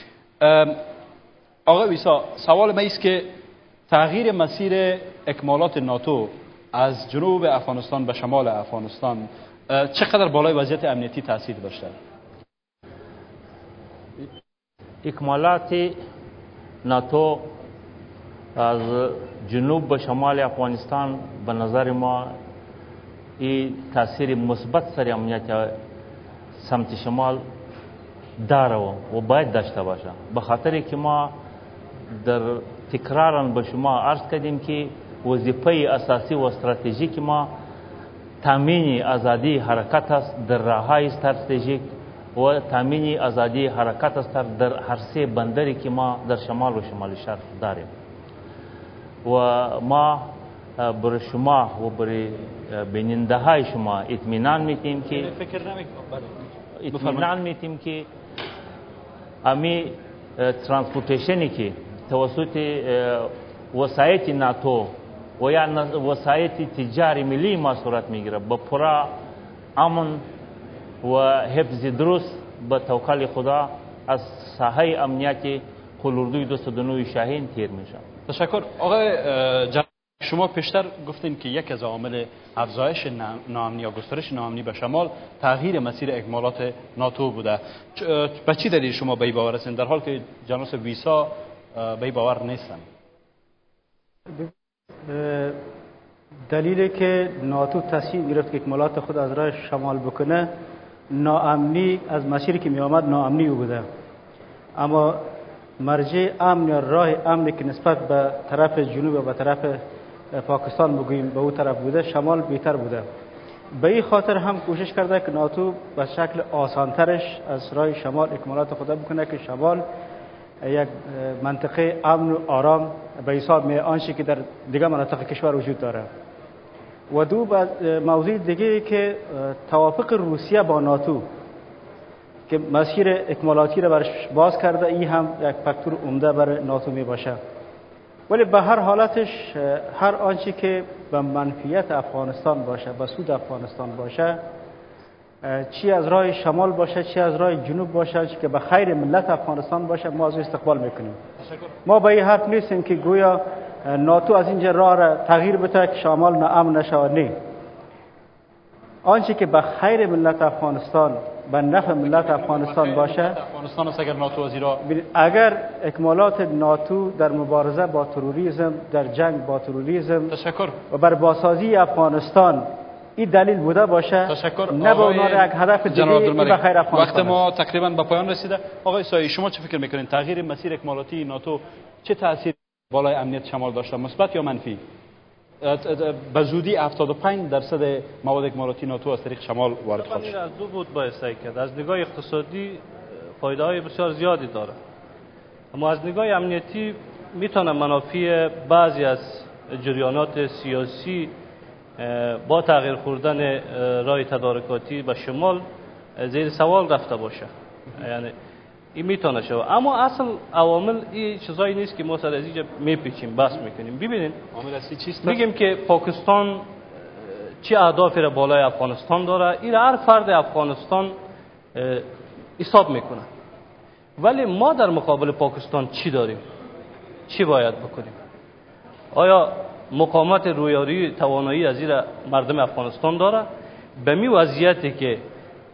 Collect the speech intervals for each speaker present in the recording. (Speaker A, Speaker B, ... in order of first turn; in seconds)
Speaker A: 0.4-0.8, 1.6-3.3, 3.9-11.9, 55.3-56.4, 57.0-57.3, 78.3-92.8, 161.9-164.8, 170.3-170.8, 174.3-184.8, 185.6-190.3, 214.5-215.4
Speaker B: 15.0-15.9, 16.8-17.5, 18.6-22.3, 23.4-25.7, 26.5-27.4, 28.4-31.4, 32.1-37.5, 38.4-41.8, 42.3-47.9, 49.2-55.3, 56.8-58.1, 59.4-69.1, 69.8-70.2, 71.0-78.0
Speaker C: 95.1-95.6, 96.5-100.5, 101.1-103.8, 104.8-105.2, 105.8-109.8, 110.3-113.0, 113.7-119.8, 120.6-126.1, 127.1-131.2, 132.5-137.4, 138.3-144.4, 145.4-151.2, 151.8-157.3, 159.0-163.4, 164.8-170.3, 170.9-172.6, 173.2-177.4
Speaker D: 190.0-192.8, 193.4-194.8, 195.7-201.3, 202.0-205.6, 206.2-208.3, 208.9-214.4, 215.2-216.7, 217.2-221.2, 221.7-222.1, 222.6-223.3, 224.2-226.4, 227.3-228.2, 229.1-233.5, 234.0-235.2